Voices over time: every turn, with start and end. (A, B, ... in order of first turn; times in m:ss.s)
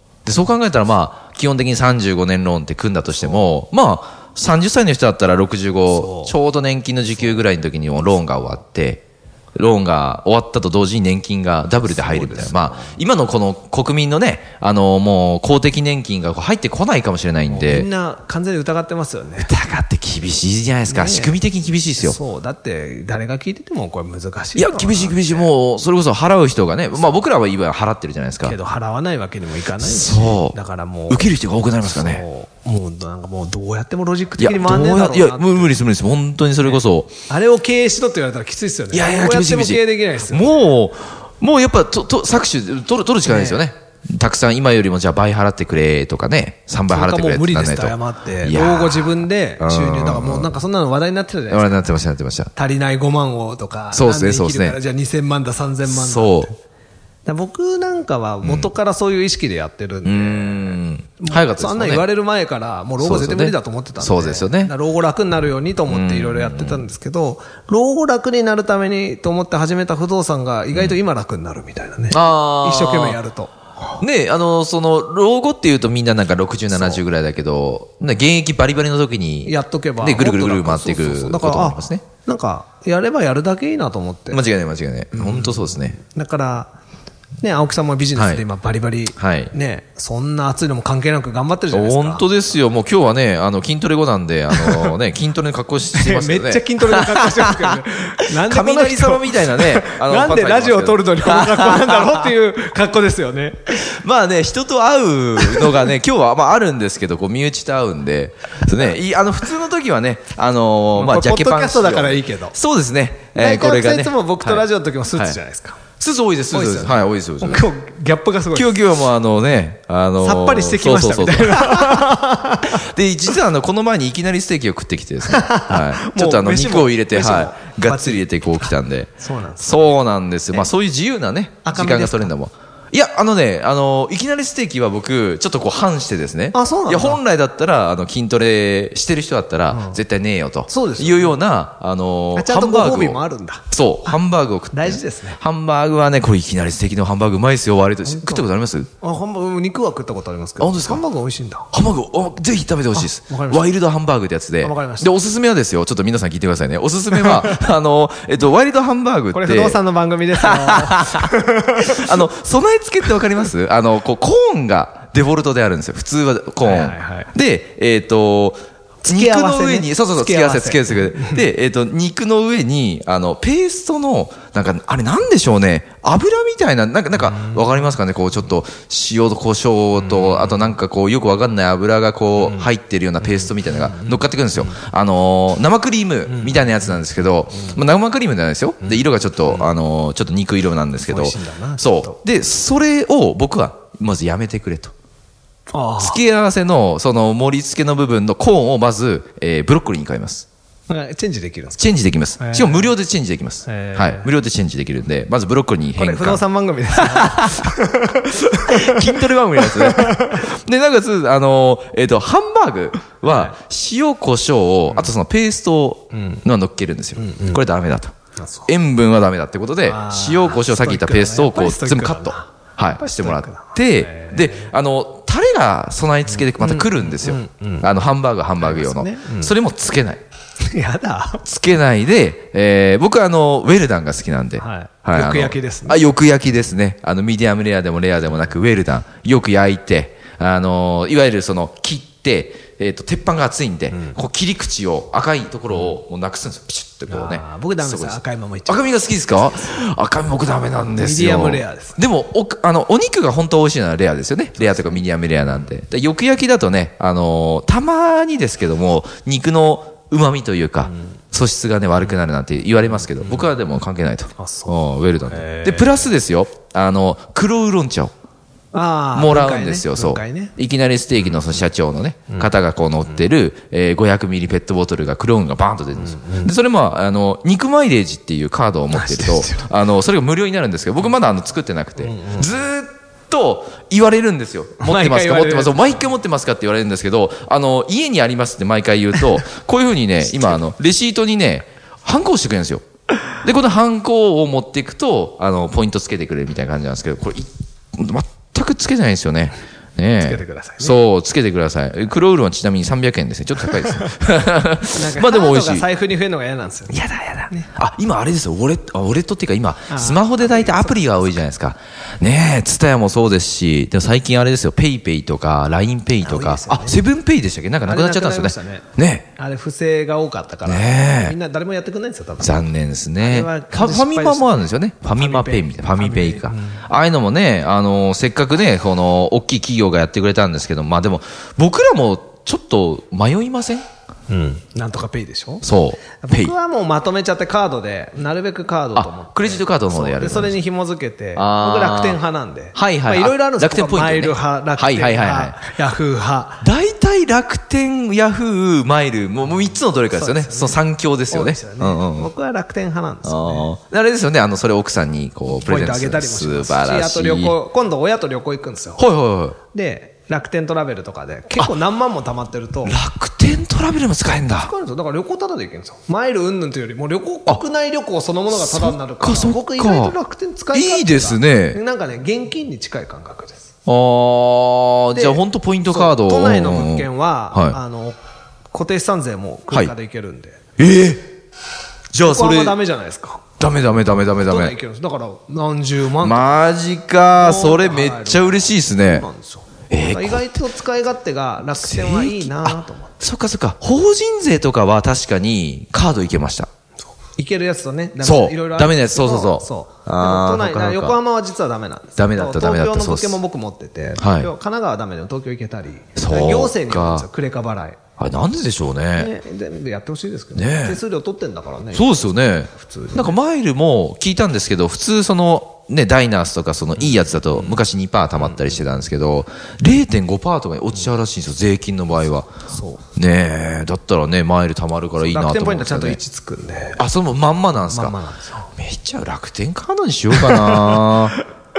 0:00.2-0:09.0 A
0:03.2-0:03.4 B
0:05.9-0:06.4 B
0:09.6-0:17.9 A
0:11.8-0:13.0 B
0:17.5-0:19.5 B
0:19.4-0:22.2 A
0:20.9-0:21.4 B
0:22.0-0:25.5 B
0:24.6-0:28.6 A
0:27.0-0:27.2 B
0:28.4-0:35.8 B
0:29.8-0:30.6 A
0:31.1-0:32.2 A
0:34.4-0:37.1 A
0:36.6-0:40.7 B
0:38.9-0:50.6 A
0:43.2-0:43.6 B
0:46.9-0:51.9 B
0:51.5-0:52.5 A
0:52.6-0:56.6 B
0:53.9-0:54.8 A
0:55.8-0:56.5 A
0:57.2-1:13.5 B
0:58.4-0:58.7 A
1:00.0-1:02.1 A
1:03.0-1:04.7 A
1:05.9-1:06.8 A
1:12.1-1:13.2 A
1:14.0-1:22.0 A
1:16.7-1:17.0 B
1:19.4-1:24.4 B
1:24.3-1:26.0 A
1:25.1-1:26.7 B
1:27.4-1:32.3 B
1:28.2-1:28.4 A
1:29.2-1:29.5 A
1:31.7-1:42.3 A
1:34.5-1:35.0 B
1:35.9-1:43.8 B
1:43.7-1:55.4 A
1:45.4-1:45.9 B
1:50.9-1:52.6 B
1:53.3-1:55.8 B
1:56.0-1:57.7 A
1:56.5-1:58.8 B
1:58.5-2:02.1 A
2:00.2-2:02.8 B
2:02.7-2:28.9 A
2:05.2-2:10.0 B
2:11.6-2:12.3 B
2:16.5-2:17.2 B
2:19.7-2:20.0 B
2:20.7-2:21.4 B
2:22.4-2:24.2 B
2:24.7-2:25.4 B
2:28.0-2:28.5 B
2:29.0-2:31.7 B
2:30.6-2:31.0 A
2:31.7-2:39.8 A
2:33.0-2:33.7 B
2:34.6-2:35.1 B
2:37.1-2:37.6 B
2:39.3-2:42.0 B
2:40.4-3:14.9 A
2:46.6-2:47.3 B
2:49.0-2:51.4 B
2:57.2-2:57.7 B
3:00.0-3:00.7 B
3:02.4-3:02.7 B
3:03.2-3:04.8 B
3:06.3-3:07.8 B
3:08.8-3:09.7 B
3:11.1-3:12.2 B
3:15.7-3:16.2 B
3:16.0-3:20.5 A
3:20.9-3:21.8 B
3:21.8-3:26.4 A
3:22.4-3:22.9 B
3:23.6-3:24.3 B
3:26.0-3:30.4 B
3:27.0-3:27.7 A
3:28.5-3:38.1 A
3:33.3-3:33.6 B
3:36.1-3:36.4 B
3:37.2-3:37.6 B
3:38.4-3:38.7 B
3:38.7-3:50.2 A
3:39.8-3:44.7 B
3:46.3-3:47.9 B
3:48.6-3:49.5 B
3:50.6-3:51.4 B
3:51.4-4:28.1 A
3:54.6-3:56.0 B
4:07.1-4:09.6 B
4:11.0-4:12.0 B
4:14.6-4:15.0 B
4:23.0-4:23.5 B
4:24.4-4:24.8 B
4:25.3-4:26.0 B
4:28.7-4:30.6 B
4:29.1-4:52.8 A
4:31.2-4:31.6 B
4:36.0-4:36.5 B
4:38.9-4:39.7 B
4:42.0-4:42.5 B
4:44.8-4:46.0 B
4:53.4-5:05.9 A
5:00.2-5:01.0 B
5:04.9-5:07.7 B
5:07.8-5:19.3 A
5:09.9-5:11.4 B
5:16.2-5:17.0 B
5:17.8-5:22.6 B
5:20.6-5:21.4 A
5:22.4-5:33.8 A
5:23.2-5:26.8 B
5:34.3-5:35.6 B
5:35.6-5:36.5 A
5:36.2-5:46.6 B
5:38.9-5:40.6 A
5:41.4-5:42.2 A
5:42.8-5:45.6 A
5:46.6-5:52.3 A
5:50.1-5:53.7 B
5:53.2-5:57.6 A
5:55.6-5:59.0 B
5:59.0-5:59.6 A
5:59.7-6:03.0 B
6:02.8-6:04.7 A
6:04.2-6:13.7 B
6:08.5-6:10.2 A
6:10.7-6:11.8 A
6:13.9-6:17.8 A
6:15.1-6:18.2 B
6:18.7-6:20.6 B
6:20.8-6:21.3 A
6:22.1-6:22.8 A
6:22.2-6:26.5 B
6:23.6-6:24.8 A
6:26.2-6:29.3 A
6:27.3-6:33.2 B
6:29.9-6:30.6 A
6:31.8-6:36.7 A
6:37.4-6:48.0 B
6:38.2-6:41.2 A
6:42.2-6:43.4 A
6:44.2-6:44.5 A
6:46.2-6:47.3 A
6:48.2-6:49.3 A
6:49.2-6:53.4 B
6:50.6-6:51.0 A
6:51.9-7:02.5 A
6:57.0-6:57.8 B
6:58.4-6:58.8 B
7:02.7-7:03.0 B
7:03.2-7:06.2 A
7:05.2-7:07.0 B
7:07.0-7:08.2 A
7:07.9-7:08.7 B
7:08.8-7:11.4 A
7:10.4-7:11.1 B